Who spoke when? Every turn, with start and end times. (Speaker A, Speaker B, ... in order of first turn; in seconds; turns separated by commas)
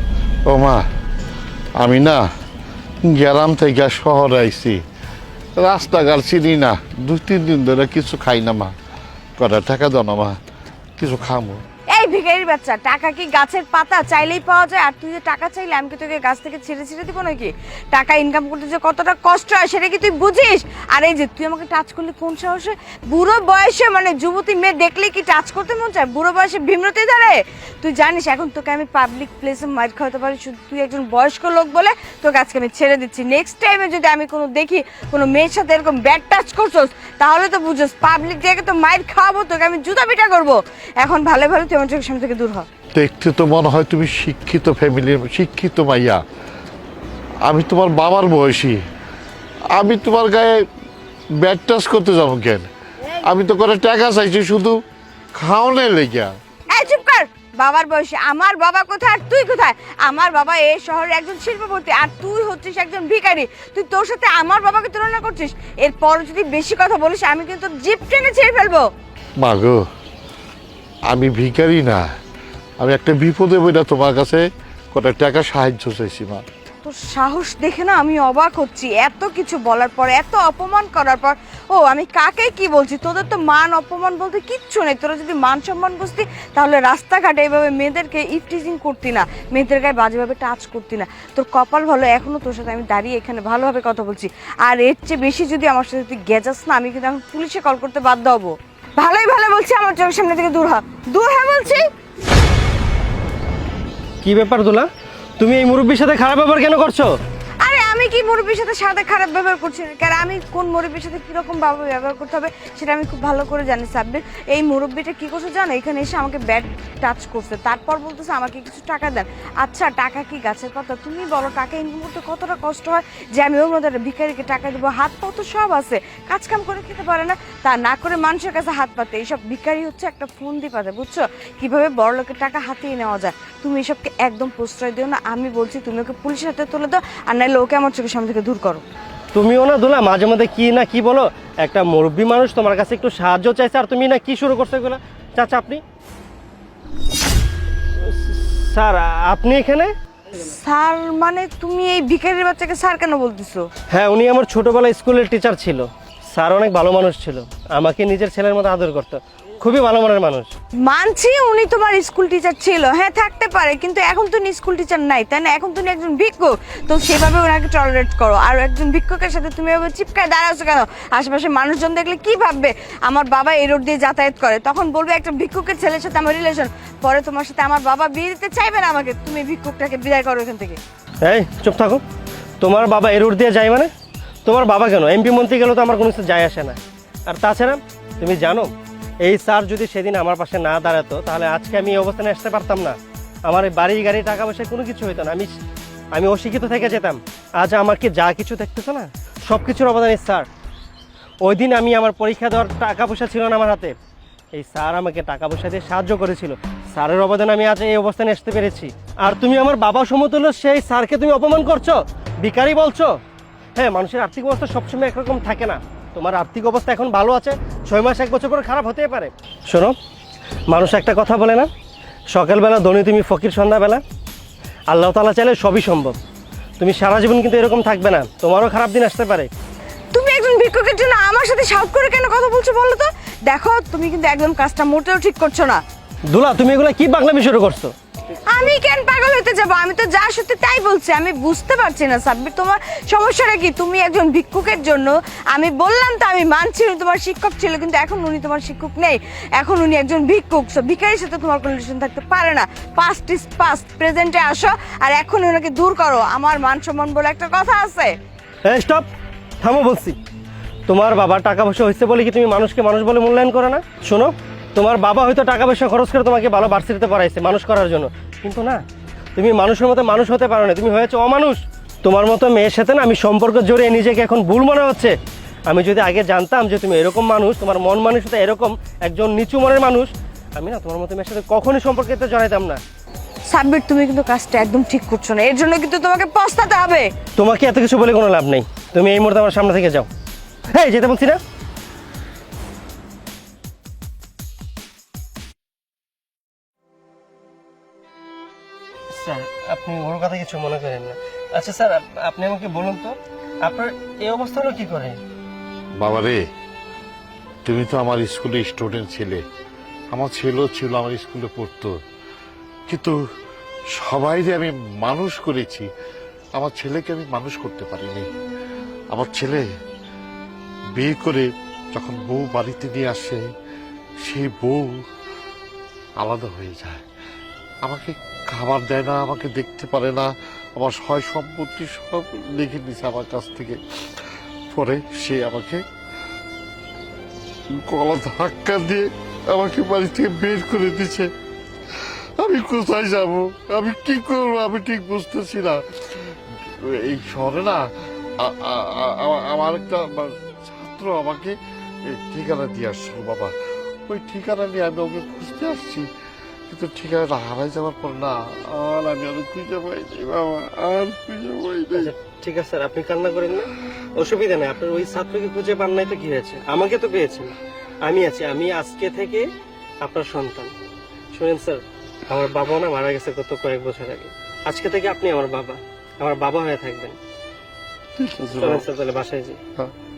Speaker A: 0.5-0.8, Speaker A: 1.8-2.2, Speaker A: 3.0-4.8, Speaker A: 5.5-8.7, Speaker A: 9.4-10.4, Speaker A: 11.0-11.6, Speaker B: 11.9-42.7, Speaker A: 42.9-46.2, Speaker A: 47.4-48.8, Speaker A: 49.7-50.6, Speaker A: 51.4-52.7, Speaker A: 53.2-54.8, Speaker A: 55.3-56.3, Speaker B: 56.7-68.9, Speaker A: 69.4-69.8, Speaker A: 71.1-72.1, Speaker A: 72.8-76.4, Speaker B: 76.8-101.9, Speaker C: 104.2-104.9, Speaker C: 105.4-107.1, Speaker B: 107.6-138.8, Speaker C: 139.3-145.8, Speaker C: 148.0-149.9, Speaker B: 150.3-153.7, Speaker C: 153.9-160.5, Speaker B: 160.8-180.8, Speaker C: 181.2-182.0, Speaker C: 182.6-183.9, Speaker C: 184.4-195.5, Speaker C: 196.1-200.5, Speaker C: 201.4-203.9, Speaker C: 204.5-213.2, Speaker C: 213.8-219.9, Speaker C: 220.7-221.7, Speaker C: 222.3-224.0, Speaker C: 224.9-226.2, Speaker C: 226.8-229.5, Speaker B: 230.1-235.8, Speaker C: 236.3-237.9, Speaker B: 238.5-258.1, Speaker C: 258.6-259.1, Speaker C: 259.6-260.2, Speaker C: 260.9-268.8, Speaker C: 269.4-275.1, Speaker C: 275.7-282.8, Speaker B: 283.5-287.1, Speaker C: 287.4-290.1, Speaker C: 290.7-291.4, Speaker C: 299.1-305.2, Speaker A: 306.0-306.4, Speaker A: 307.6-309.4, Speaker A: 310.1-311.9, Speaker A: 312.9-313.2, Speaker A: 313.9-315.9, Speaker A: 316.5-318.3, Speaker A: 319.1-319.6, Speaker A: 320.9-323.4, Speaker A: 324.2-325.0, Speaker A: 326.2-327.0, Speaker A: 327.8-333.8, Speaker A: 334.7-335.8, Speaker A: 337.7-341.3, Speaker A: 341.9-353.5, Speaker A: 354.1-356.1, Speaker A: 356.7-362.1, Speaker C: 361.9-369.5, Speaker C: 370.0-370.7, Speaker C: 371.3-377.2, Speaker A: 378.2-378.9, Speaker C: 378.5-379.6